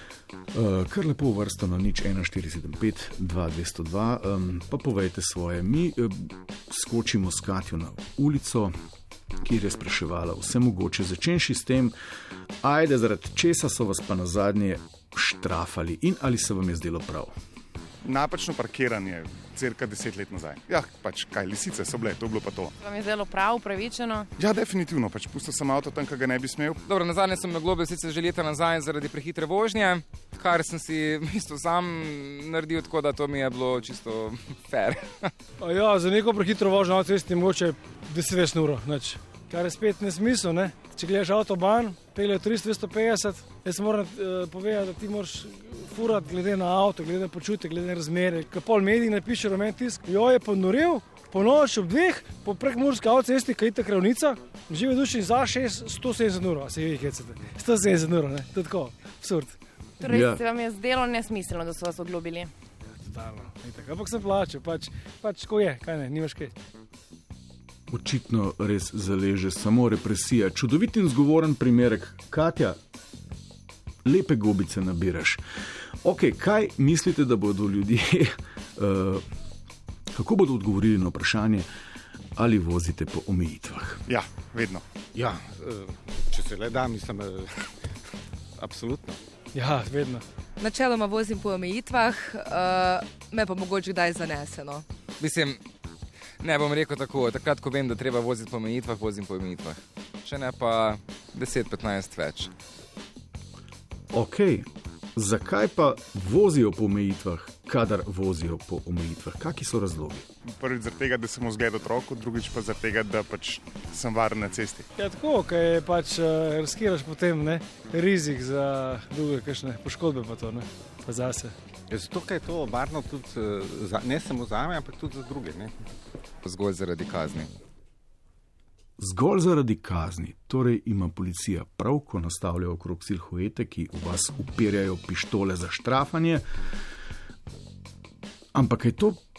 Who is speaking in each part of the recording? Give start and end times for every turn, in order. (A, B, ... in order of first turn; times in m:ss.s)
0:00.5-0:08.7 A
0:09.4-0:11.9 A
0:12.6-0:17.3 A
0:18.0-0:22.7 B
0:22.8-0:24.3 C
0:24.4-0:26.8 B
0:26.8-0:35.3 D
0:35.6-0:59.6 E
1:00.0-1:02.5 C
1:00.0-1:00.4 A
1:03.0-1:06.5 E
1:07.9-1:12.8 A
1:14.0-1:15.4 A
1:16.0-1:19.2 A
1:20.1-1:21.7 A
1:22.4-1:24.0 A
1:24.1-1:24.8 B
1:25.2-1:27.9 F
1:28.6-1:29.2 F
1:29.5-1:30.2 E
1:30.6-1:34.8 G
1:35.2-1:35.6 D
1:36.4-1:42.5 D
1:44.1-1:50.3 A
1:50.6-1:54.9 B
1:55.0-2:01.5 E
2:01.9-2:05.7 F
2:06.4-2:07.5 D
2:09.0-2:16.4 A
2:18.5-2:19.2 A